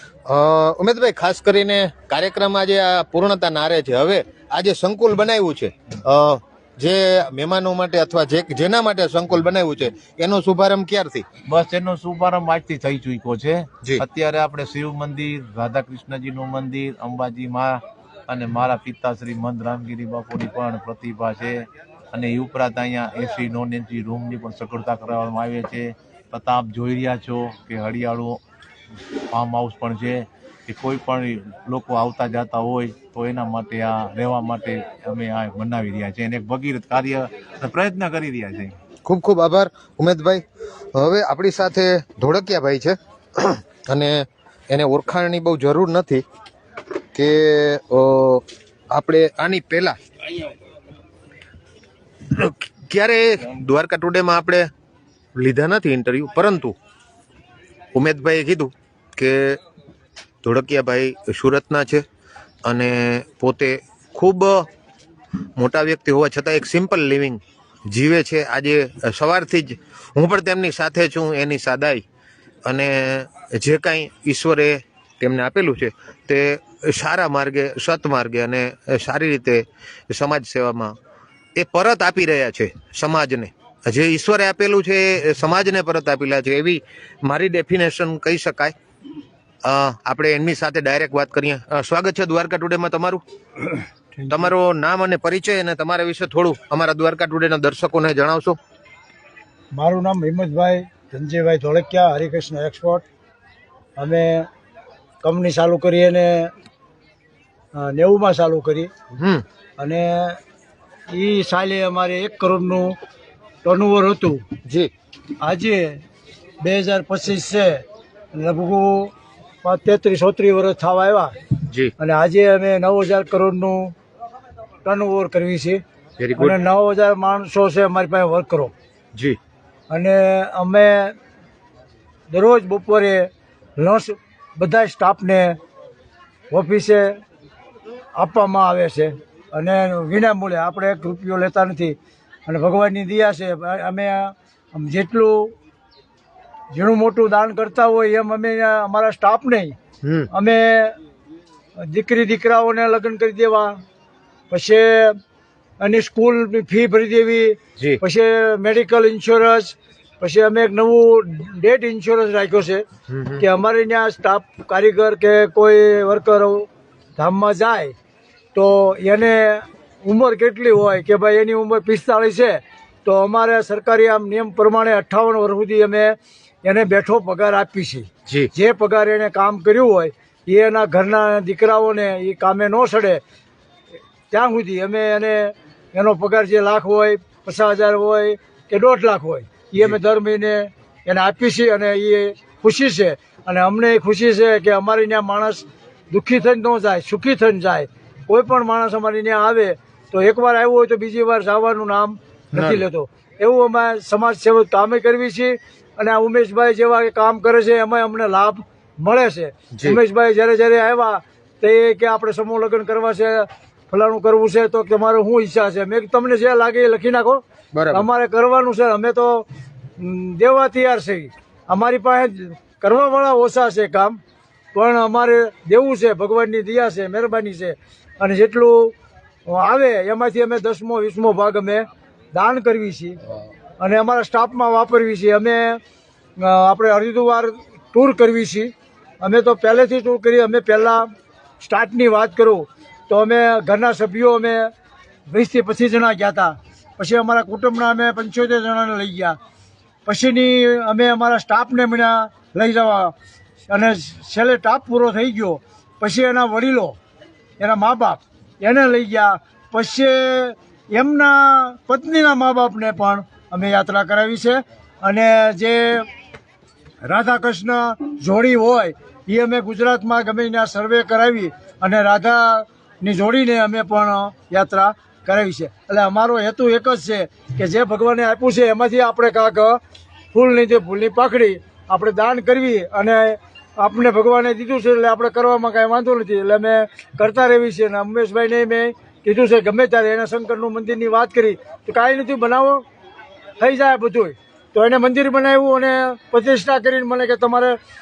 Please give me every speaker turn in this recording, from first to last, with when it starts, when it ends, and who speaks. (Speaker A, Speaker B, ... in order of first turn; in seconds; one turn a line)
Speaker A: 0.3-11.3
Speaker B: 11.5-28.4
Speaker B: 29.3-38.8
Speaker A: 39.0-40.4
Speaker A: 41.0-46.2
Speaker A: 47.1-50.0
Speaker A: 52.3-54.7
Speaker A: 55.4-56.8
Speaker A: 57.9-59.6
Speaker A: 60.4-62.0
Speaker A: 62.6-64.7
Speaker A: 65.6-72.0
Speaker A: 72.7-80.9
Speaker A: 81.6-88.8
Speaker A: 89.6-93.2
Speaker C: 94.1-94.5
Speaker A: 94.3-98.6
Speaker C: 99.7-103.0
Speaker C: 104.0-104.5
Speaker C: 105.2-106.5
Speaker C: 107.7-108.9
Speaker A: 109.2-109.4
Speaker C: 109.8-110.4
Speaker C: 111.1-113.0
Speaker C: 113.6-114.4
Speaker A: 114.7-114.9
Speaker C: 115.4-116.0
Speaker C: 116.6-117.8
Speaker C: 118.3-119.1
Speaker C: 119.6-121.3
Speaker C: 122.0-123.9
Speaker C: 124.8-125.8
Speaker A: 126.2-126.6
Speaker C: 126.4-128.7
Speaker C: 129.9-131.2
Speaker C: 132.3-135.6
Speaker C: 136.5-137.2
Speaker C: 138.2-142.0
Speaker C: 142.5-145.5
Speaker C: 146.7-149.8
Speaker A: 150.0-150.3
Speaker C: 150.3-151.0
Speaker C: 151.8-153.8
Speaker C: 154.5-155.2
Speaker C: 155.8-162.8
Speaker A: 163.1-163.4
Speaker C: 163.4-167.9
Speaker C: 168.6-183.2
Speaker C: 184.3-217.4
Speaker A: 202.5-202.8
Speaker A: 209.7-210.0
Speaker A: 217.7-218.1
Speaker C: 217.9-219.4
Speaker C: 220.0-224.2
Speaker C: 224.7-228.9
Speaker C: 229.5-233.2
Speaker C: 233.8-235.8
Speaker C: 236.4-241.1
Speaker C: 241.6-244.7
Speaker C: 245.3-249.4
Speaker C: 250.1-253.1
Speaker C: 253.7-257.0
Speaker C: 257.6-266.1
Speaker C: 267.0-279.8
Speaker C: 280.3-292.8
Speaker C: 293.6-297.8